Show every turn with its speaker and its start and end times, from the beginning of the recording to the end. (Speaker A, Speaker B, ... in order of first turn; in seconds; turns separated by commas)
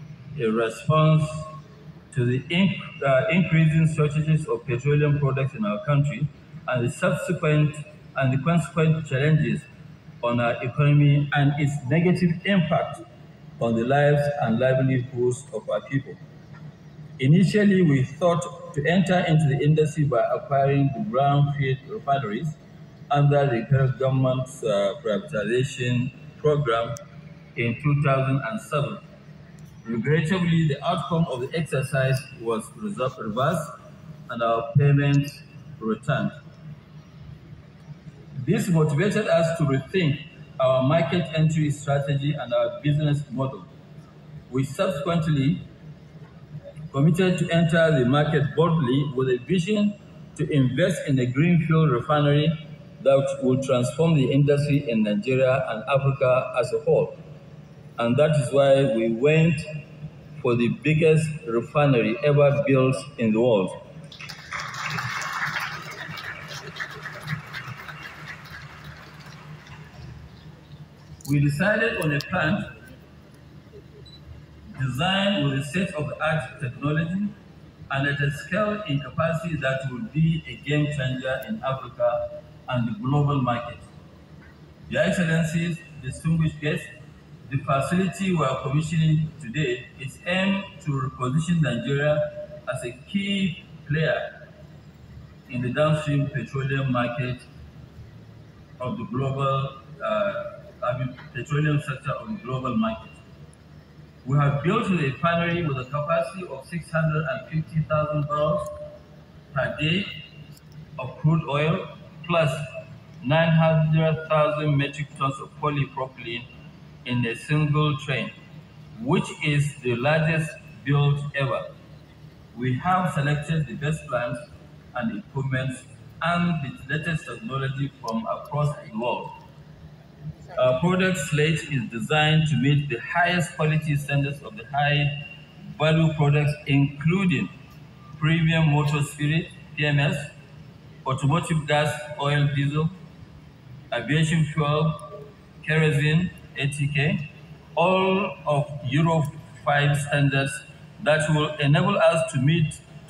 Speaker A: 0.3-1.5, Speaker A: 2.1-9.7, Speaker A: 10.2-13.0, Speaker A: 13.6-16.2, Speaker A: 17.2-22.6, Speaker A: 23.1-27.0, Speaker A: 27.5-29.0, Speaker A: 29.8-36.4, Speaker A: 38.4-43.7, Speaker A: 44.5-45.7, Speaker A: 46.9-57.2, Speaker A: 58.0-59.8, Speaker A: 60.4-63.8, Speaker A: 71.2-72.7, Speaker A: 74.7-77.3, Speaker A: 77.9-83.9, Speaker A: 84.9-86.9, Speaker A: 87.4-94.4, Speaker A: 95.5-97.5, Speaker A: 98.8-103.2, Speaker A: 104.2-108.7, Speaker A: 109.5-110.2, Speaker A: 111.0-112.7, Speaker A: 113.2-116.5, Speaker A: 117.0-118.3, Speaker A: 118.9-121.7, Speaker A: 122.5-129.4, Speaker A: 130.6-137.5, Speaker A: 138.2-140.3, Speaker A: 141.0-142.9, Speaker A: 143.9-152.8